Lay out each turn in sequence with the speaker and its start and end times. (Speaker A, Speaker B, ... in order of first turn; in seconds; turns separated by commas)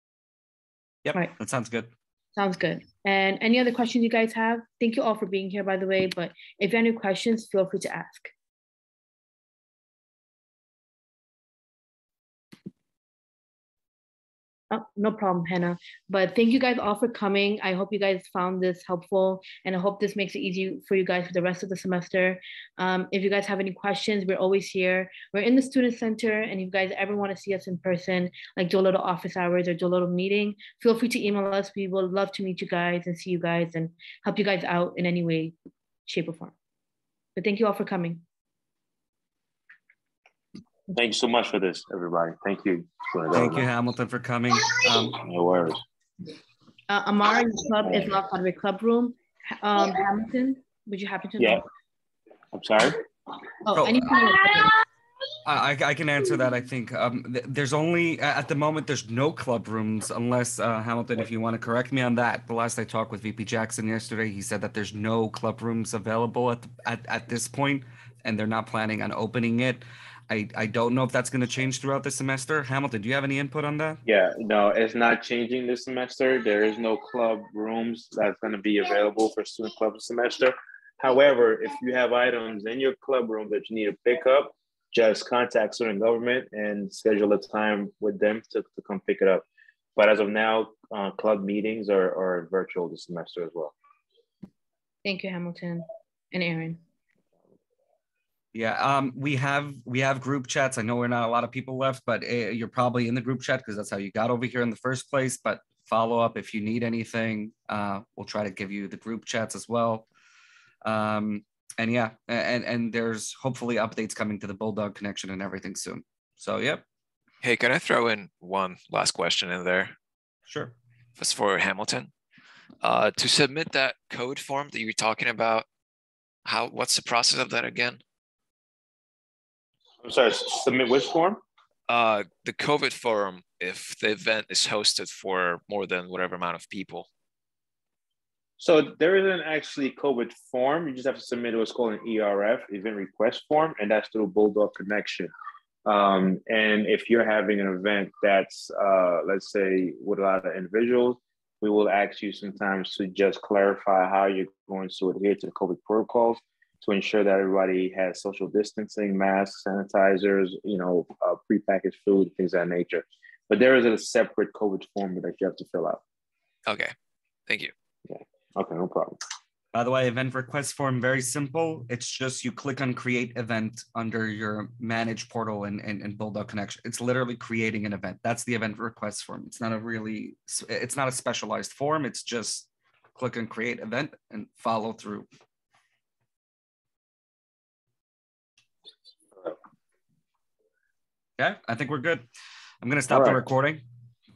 Speaker A: 1.1-1.9, Speaker B: 2.4-8.3, Speaker B: 14.7-36.5, Speaker B: 37.4-38.2, Speaker C: 40.9-43.7, Speaker A: 43.3-45.2, Speaker C: 45.1-45.8, Speaker B: 46.9-51.6, Speaker C: 47.8-48.1, Speaker C: 52.5-53.0, Speaker B: 53.6-54.8, Speaker A: 53.7-54.1, Speaker A: 55.5-74.0, Speaker C: 74.0-89.5, Speaker C: 90.0-93.7, Speaker B: 95.0-96.8, Speaker A: 98.5-110.1, Speaker A: 110.8-116.8, Speaker D: 117.4-119.9, Speaker A: 120.5-120.8, Speaker D: 121.2-122.1, Speaker D: 122.8-125.7, Speaker D: 126.5-128.0, Speaker C: 130.0-131.4, Speaker D: 131.9-137.1, Speaker C: 138.6-145.3, Speaker C: 145.8-166.0, Speaker D: 166.7-166.9, Speaker D: 167.5-167.7, Speaker C: 168.1-169.2, Speaker A: 169.7-185.3, Speaker A: 191.4-192.3, Speaker A: 192.8-193.8, Speaker C: 193.1-193.5